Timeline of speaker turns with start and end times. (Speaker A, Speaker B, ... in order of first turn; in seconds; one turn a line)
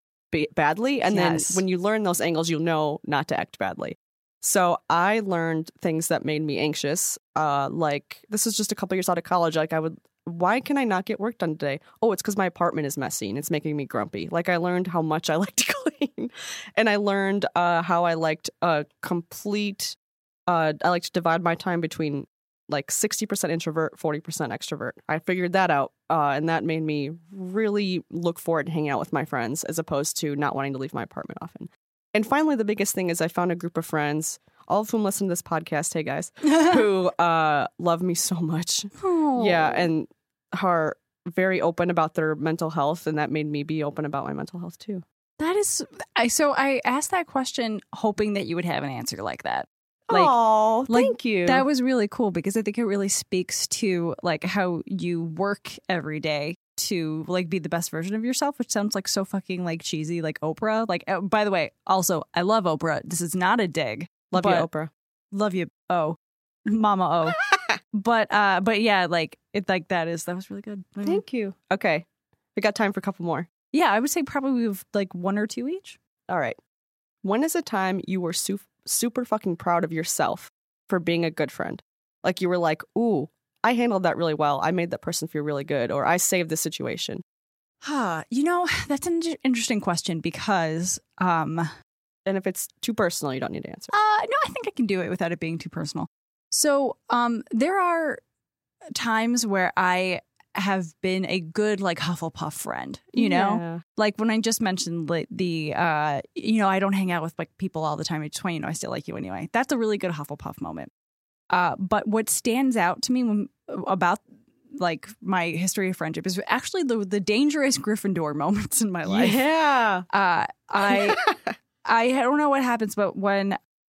Speaker A: 0.3-20.0
Speaker B: 1.0-1.6
Speaker A: 20.5-45.0
Speaker B: 36.5-36.8
Speaker B: 39.0-39.9
Speaker B: 45.4-50.4
Speaker A: 50.1-51.6
Speaker B: 50.9-64.7
Speaker A: 64.3-64.9
Speaker B: 65.3-67.4
Speaker B: 67.9-71.2
Speaker A: 71.0-73.5
Speaker B: 73.7-76.0
Speaker A: 76.3-76.6
Speaker A: 77.2-87.2
Speaker B: 87.8-91.7
Speaker A: 92.3-93.9
Speaker B: 93.9-98.2
Speaker B: 99.0-110.9
Speaker A: 103.1-103.8
Speaker B: 111.5-114.2
Speaker B: 114.8-119.5
Speaker A: 119.1-120.1
Speaker B: 120.1-121.2
Speaker A: 120.9-121.4
Speaker B: 121.8-123.6